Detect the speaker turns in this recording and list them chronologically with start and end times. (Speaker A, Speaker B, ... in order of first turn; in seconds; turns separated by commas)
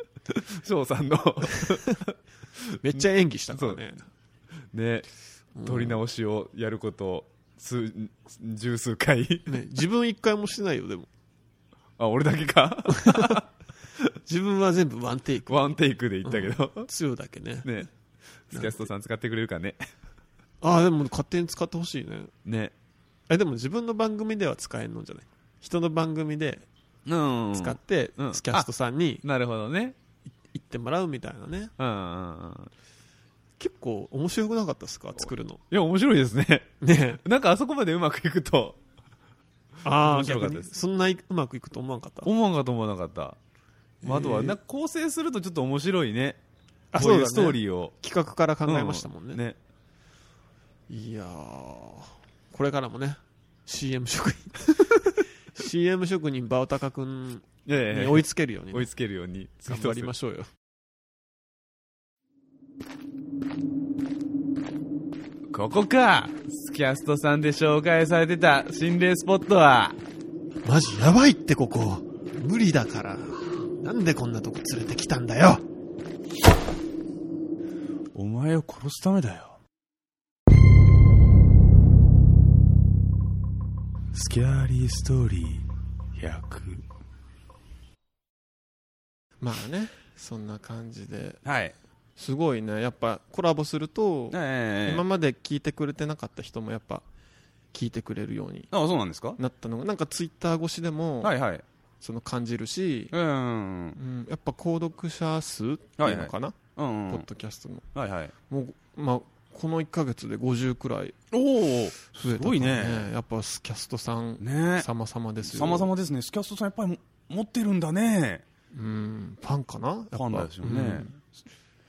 Speaker A: 0.3-2.2, Speaker B: 1.5-2.0, Speaker B: 2.8-4.1, Speaker A: 3.5-3.8, Speaker A: 4.7-5.1, Speaker B: 5.6-6.0, Speaker A: 5.7-9.6, Speaker B: 9.5-11.1, Speaker A: 12.0-13.4, Speaker B: 12.9-13.4, Speaker B: 14.3-17.9, Speaker A: 15.5-16.9, Speaker A: 18.5-19.9, Speaker B: 18.5-18.9, Speaker B: 20.6-22.3, Speaker A: 22.4-22.7, Speaker B: 23.3-26.7, Speaker A: 27.1-28.7, Speaker B: 27.5-29.2, Speaker A: 29.2-30.0, Speaker B: 30.5-31.7, Speaker A: 31.8-32.7, Speaker B: 33.6-35.6, Speaker A: 35.7-36.7, Speaker B: 36.8-37.2, Speaker A: 37.2-38.8, Speaker B: 39.8-42.3, Speaker A: 40.0-40.7, Speaker A: 42.2-43.4, Speaker B: 44.0-44.6, Speaker A: 44.0-46.4, Speaker B: 46.9-49.4, Speaker A: 47.0-47.9, Speaker A: 48.7-49.6, Speaker B: 50.9-58.9, Speaker A: 57.7-60.1, Speaker B: 59.7-60.5, Speaker A: 65.5-70.0, Speaker B: 70.7-75.6, Speaker A: 78.1-79.6, Speaker A: 84.1-85.7, Speaker A: 86.2-86.9, Speaker B: 89.4-91.4, Speaker A: 91.5-91.8, Speaker B: 92.2-97.0, Speaker A: 94.3-95.0, Speaker B: 97.7-98.7, Speaker A: 98.7-99.4, Speaker B: 99.4-101.3, Speaker A: 101.2-101.6, Speaker B: 102.0-103.1, Speaker A: 103.1-104.0, Speaker B: 104.0-106.5, Speaker A: 106.0-107.2, Speaker B: 107.1-107.9, Speaker A: 108.0-108.3, Speaker B: 108.5-111.2, Speaker A: 111.3-113.1, Speaker B: 112.1-115.9, Speaker A: 114.4-114.9, Speaker A: 115.4-118.4, Speaker B: 118.7-121.1, Speaker A: 120.1-121.1